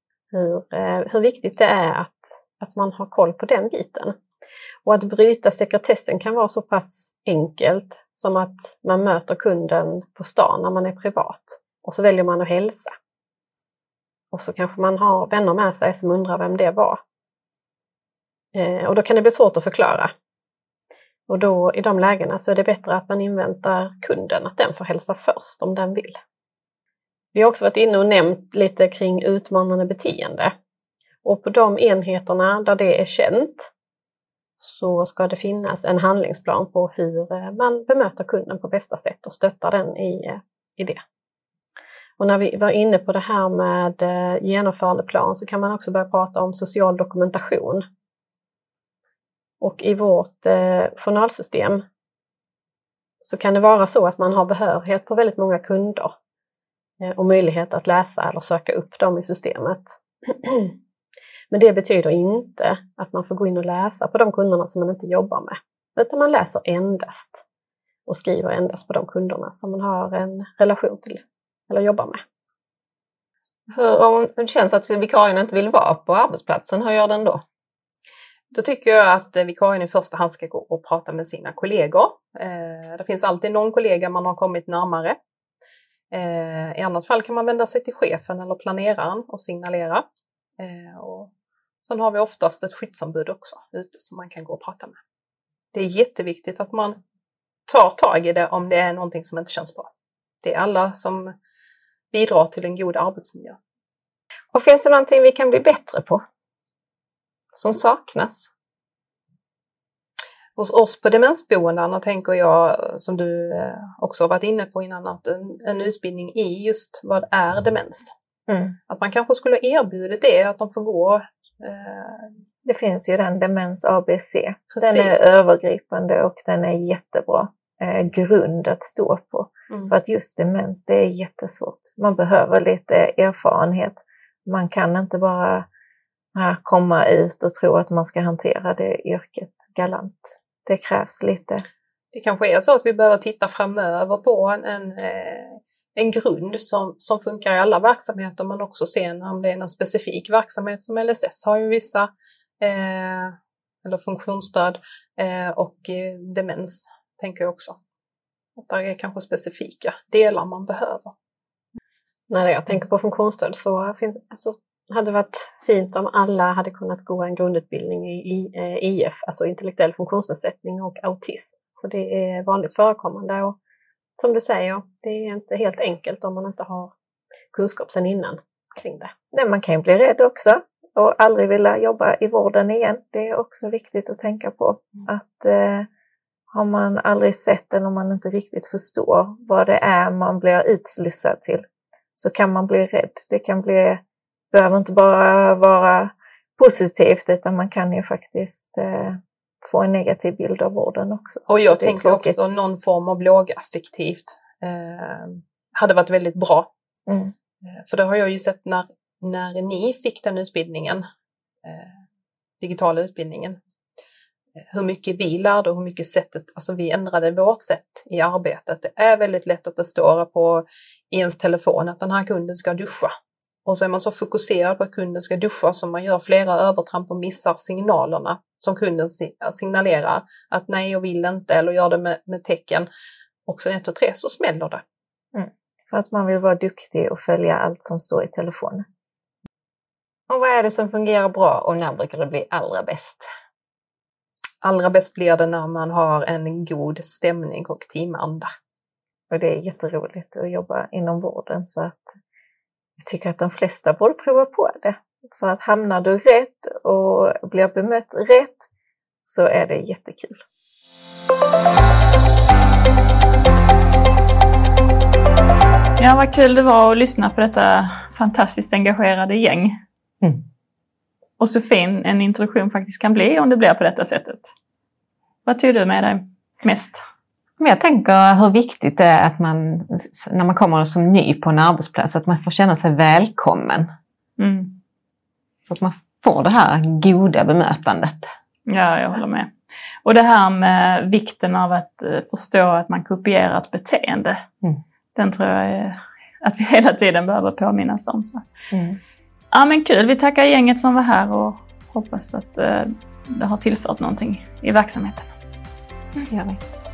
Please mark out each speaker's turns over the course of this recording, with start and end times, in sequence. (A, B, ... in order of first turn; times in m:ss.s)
0:00.3-0:04.2 A
0:04.8-0:12.9 A
0:14.3-0:17.0 A
0:18.5-0:20.1 A
0:21.3-0:26.2 A
0:27.3-0:30.5 A
0:31.2-0:33.7 A
0:34.6-0:41.0 A
0:42.2-0:47.8 A
0:49.6-0:51.8 A
0:53.2-0:56.1 A
0:57.0-1:00.8 A
1:01.5-1:07.4 A
1:08.0-1:12.2 A
1:13.7-1:17.4 B
1:18.5-1:25.2 C
1:26.1-1:30.0 C
1:30.6-1:31.3 C
1:31.8-1:35.0 C
1:35.7-1:37.0 C
1:37.7-1:39.9 C
1:40.4-1:41.3 C
1:42.1-1:43.6 C
1:44.5-1:46.2 B
1:47.5-1:48.5 B
1:50.6-1:58.1 C
1:58.5-1:58.8 D
1:58.9-2:02.3 C
2:02.6-2:15.7 D
2:04.7-2:05.3 C
2:16.3-2:21.6 D
2:22.1-2:32.1 C
2:32.6-2:37.8 C
2:38.6-2:41.1 C
2:42.3-2:53.6 A
2:54.2-2:56.9 A
2:57.5-2:59.1 A
2:59.3-3:05.9 D
3:06.5-3:14.0 D
3:14.5-3:22.4 D
3:21.5-3:26.7 C
3:27.1-3:27.3 D
3:27.6-3:31.0 C
3:31.6-3:32.0 C
3:32.6-3:33.6 C
3:34.7-3:43.1 C
3:43.6-3:52.9 C
3:53.4-3:54.8 C
3:55.3-3:58.9 D
4:00.3-4:03.3 B
4:04.6-4:08.5 C
4:09.3-4:12.2 D
4:13.0-4:18.6 D
4:19.2-4:20.4 D
4:26.0-4:29.8 E
4:31.4-4:34.5 E
4:35.4-4:37.0 E
4:37.6-4:43.9 B
4:44.4-4:44.8 E
4:45.6-4:48.3 B
4:48.7-4:49.5 E
4:50.0-4:54.5 E
4:55.1-4:58.5 E
4:59.5-5:05.3 E
5:06.3-5:06.6 B